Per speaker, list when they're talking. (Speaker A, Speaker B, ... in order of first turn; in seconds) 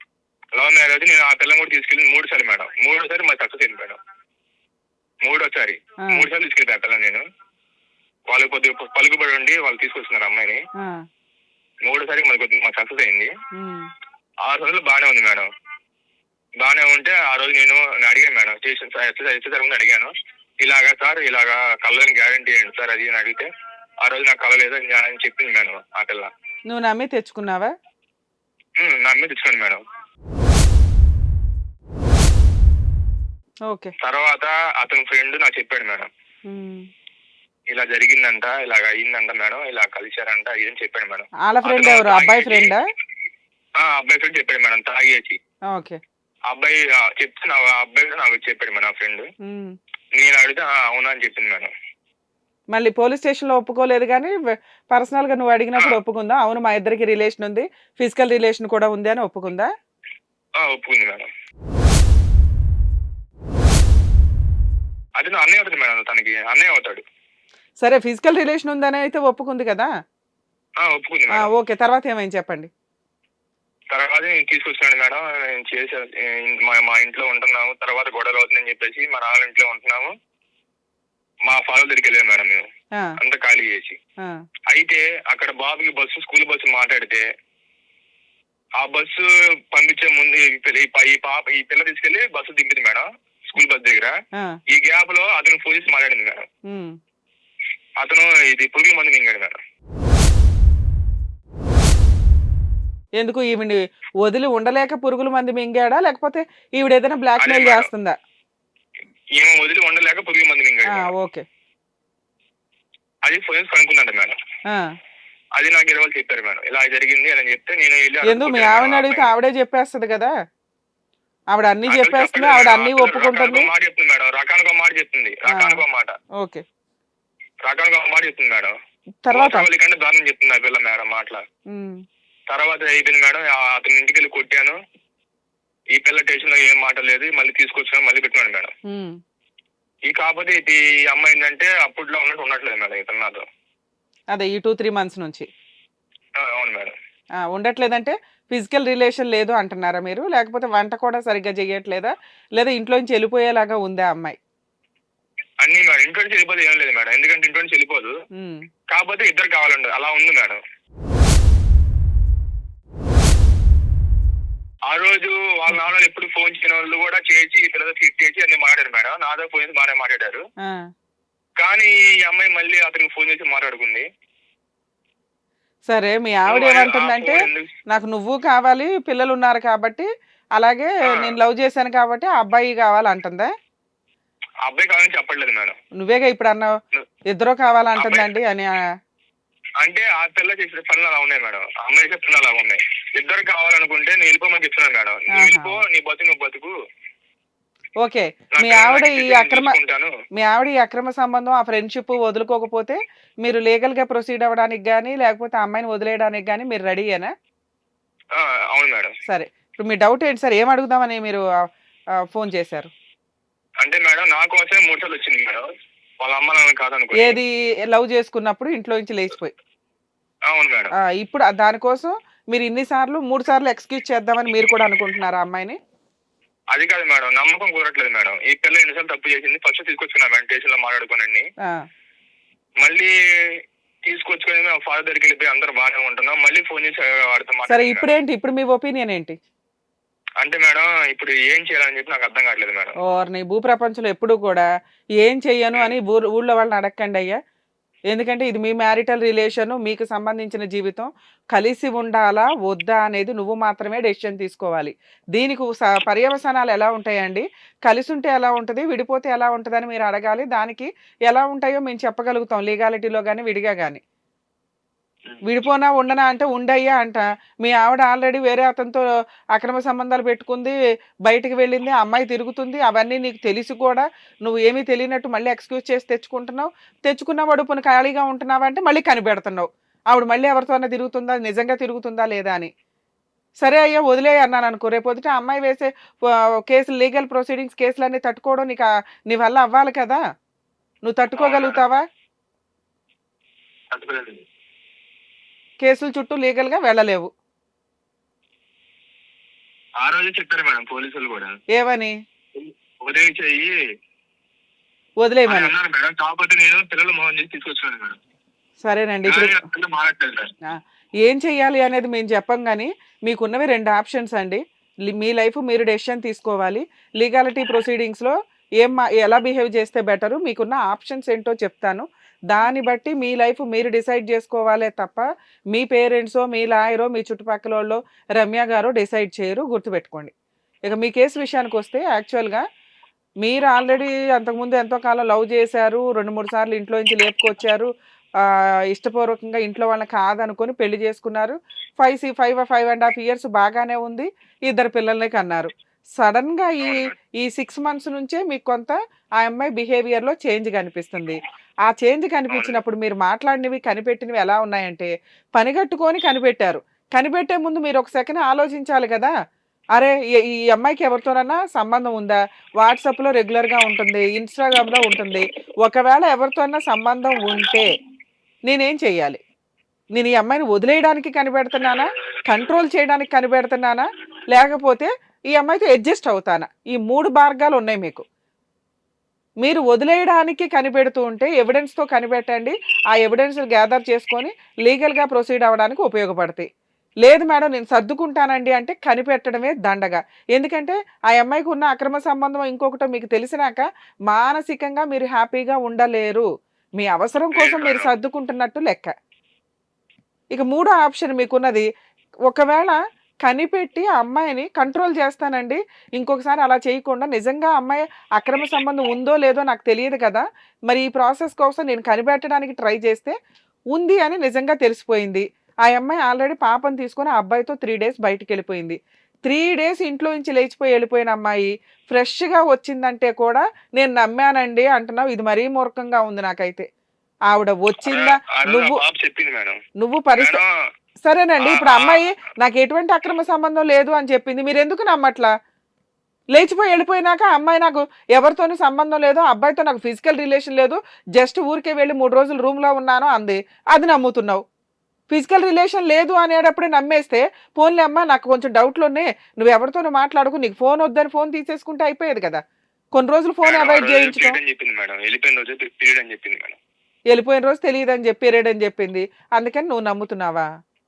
Speaker A: 0.5-4.0, 5.2-7.2, 8.3-10.6, 11.8-13.3, 14.4-15.5, 16.6-23.5, 24.0-26.3, 28.8-29.8, 34.0-36.1, 37.7-42.7, 43.8-45.4, 46.5-49.3, 50.1-51.7, 60.6-61.3, 65.2-67.0, 70.8-71.5, 73.9-80.1, 81.5-84.0, 84.7-87.3, 88.8-96.5, 98.0-99.6, 107.4-107.9, 109.3-111.1, 113.2-114.4, 115.5-119.3, 121.9-126.1, 127.6-128.7, 129.3-131.4, 132.5-134.8, 135.9-138.7, 140.1-143.4, 146.4-146.9, 155.6-158.2, 158.9-160.6, 164.9-170.4, 171.6-174.0, 176.5-177.7, 181.1-181.4, 184.6-185.8, 187.9-188.3, 189.8-196.7, 198.5-200.1, 208.3-209.1, 213.8-215.7, 216.2-217.4, 220.5-220.9, 226.7-231.5, 232.8-238.1, 240.4-242.9, 291.4-291.8, 293.9-294.4, 300.0-301.6, 302.5-303.7, 305.5-308.2, 309.3-310.5, 346.8-347.1, 352.5-352.8, 397.5-398.1, 428.0-429.8, 430.4-430.7, 431.6-432.2, 453.6-456.8
Speaker B: 6.0-6.3, 10.8-11.0, 13.5-13.9, 26.7-27.7, 36.5-36.9, 41.4-42.8, 45.7-46.0, 49.4-49.7, 52.7-59.7, 67.8-69.9, 71.3-72.7, 96.7-97.0, 103.2-108.2, 110.9-111.4, 118.2-120.3, 121.5-123.7, 125.5-125.8, 129.2-129.7, 131.7-132.0, 138.9-139.2, 144.3-145.5, 147.5-154.4, 158.3-158.6, 170.6-170.9, 175.9-183.5, 186.0-186.8, 187.3-188.7, 195.3-195.8, 198.0-199.8, 200.3-207.3, 209.3-211.4, 212.3-212.9, 217.2-219.5, 221.0-225.8, 237.7-239.4, 243.0-244.6, 245.2-247.4, 248.1-264.0, 265.4-269.0, 269.5-282.7, 283.6-290.2, 291.0-292.0, 295.8-297.3, 301.7-302.1, 305.2-305.7, 308.8-309.6, 310.6-330.3, 330.9-332.6, 333.4-337.9, 338.4-359.3, 359.9-367.9, 368.7-369.4, 370.1-378.2, 379.6-386.7, 387.2-396.5, 397.0-399.1, 400.5-401.9, 402.5-413.3, 413.9-426.9, 427.5-429.0, 430.0-430.6, 431.2-435.5, 436.5-444.6, 445.3-452.6, 453.1-454.6, 457.3-460.7